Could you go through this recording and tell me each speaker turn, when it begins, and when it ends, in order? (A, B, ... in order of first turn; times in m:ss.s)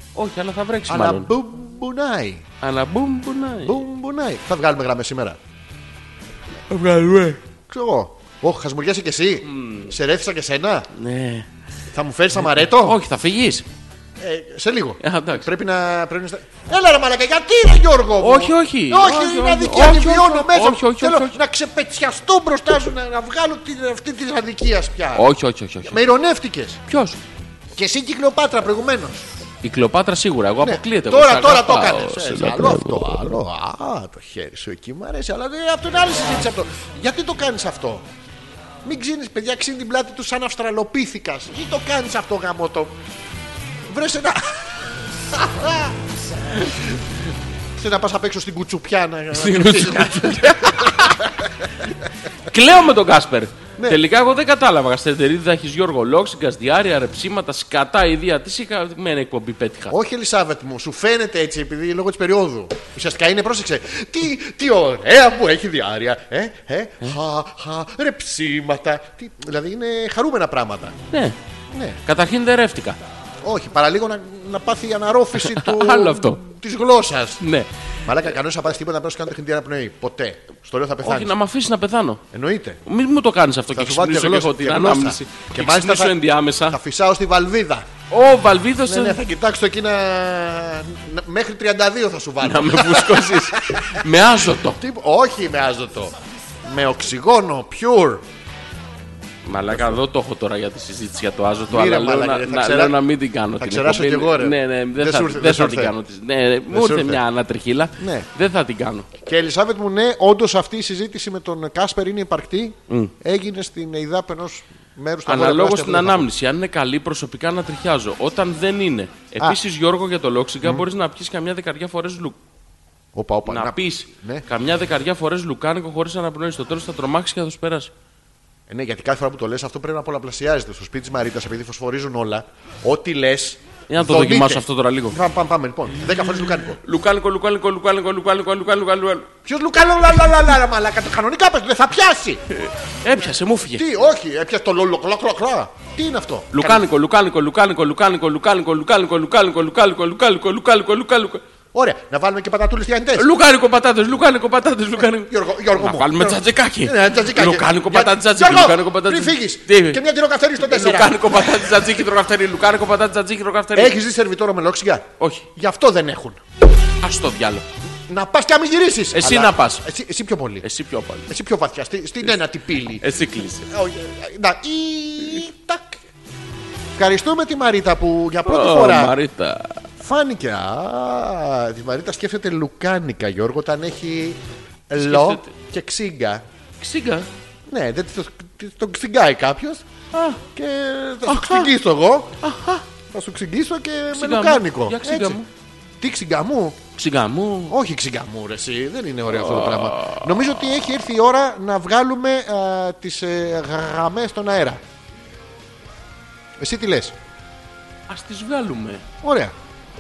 0:00.2-0:01.3 A
0:00.9-0:02.5 B
0:02.6-0:03.8 A
0:03.6-0:05.4 B
0:06.7-0:07.4 A
0:07.7-0:10.9 B
0:09.4-0:09.9 A
0:10.9-0:11.5 A
0:11.9-0:13.0 B
0:12.4-0:13.7 A
0:14.2-0:25.3 B
0:15.0-0:15.5 A
0:18.2-0:21.4 A
0:25.2-0:26.0 A
0:25.8-0:26.8 B
0:26.9-0:27.2 A
0:27.8-0:29.3 B
0:29.6-0:33.3 A
0:30.6-0:38.1 B
0:38.8-0:43.0 B
0:43.9-0:44.8 B
0:45.3-0:46.0 B
0:47.8-0:51.9 B
0:49.3-0:51.2 A
0:52.5-1:00.0 A
0:53.8-0:54.0 B
0:59.9-1:11.0 B
1:11.7-1:12.0 B
1:12.0-1:13.0 A
1:13.4-1:17.4 B
1:15.4-1:16.4 A
1:17.4-1:17.7 A
1:18.1-1:21.3 B
1:21.0-1:22.2 A
1:22.3-1:22.8 B
1:22.9-1:26.8 A
1:23.7-1:27.9 B
1:28.1-1:29.2 A
1:28.8-1:34.1 B
1:32.4-1:34.8 A
1:34.7-1:38.2 B
1:39.5-1:49.1 A
1:39.7-1:40.0 B
1:41.7-1:43.0 B
1:43.6-1:46.0 B
1:46.7-1:47.2 B
1:48.0-1:48.3 B
1:49.2-1:56.3 B
1:55.3-2:02.4 A
2:03.2-2:04.4 B
2:03.5-2:07.9 A
2:08.7-2:16.8 B
2:13.9-2:15.2 A
2:16.8-2:19.3 A
2:19.4-2:22.4 B
2:22.5-2:23.9 A
2:23.7-2:26.8 B
2:26.5-2:31.4 A
2:31.7-2:33.3 B
2:33.2-2:40.0 A
2:35.2-2:41.7 B
2:40.6-2:44.0 A
2:43.8-2:46.4 B
2:45.2-2:45.5 A
2:47.0-2:47.6 A
2:48.1-2:50.7 B
2:49.1-2:49.8 A
2:50.6-2:51.3 A
2:51.3-2:53.1 B
2:53.0-2:53.7 A
2:53.6-2:56.0 B
2:57.0-2:59.2 B
2:58.4-2:59.8 A
3:00.0-3:06.4 B
3:05.0-3:05.5 A
3:06.8-3:07.3 A
3:07.7-3:09.8 B
3:10.1-3:10.4 A
3:10.6-3:12.4 B
3:11.3-3:11.7 A
3:12.4-3:12.8 A
3:13.1-3:15.4 B
3:14.1-3:15.5 A
3:16.0-3:16.8 B
3:17.0-3:17.8 A
3:17.7-3:24.8 B
3:19.3-3:20.3 A
3:26.6-3:27.2 B
3:28.1-3:29.0 A
3:29.2-3:29.6 B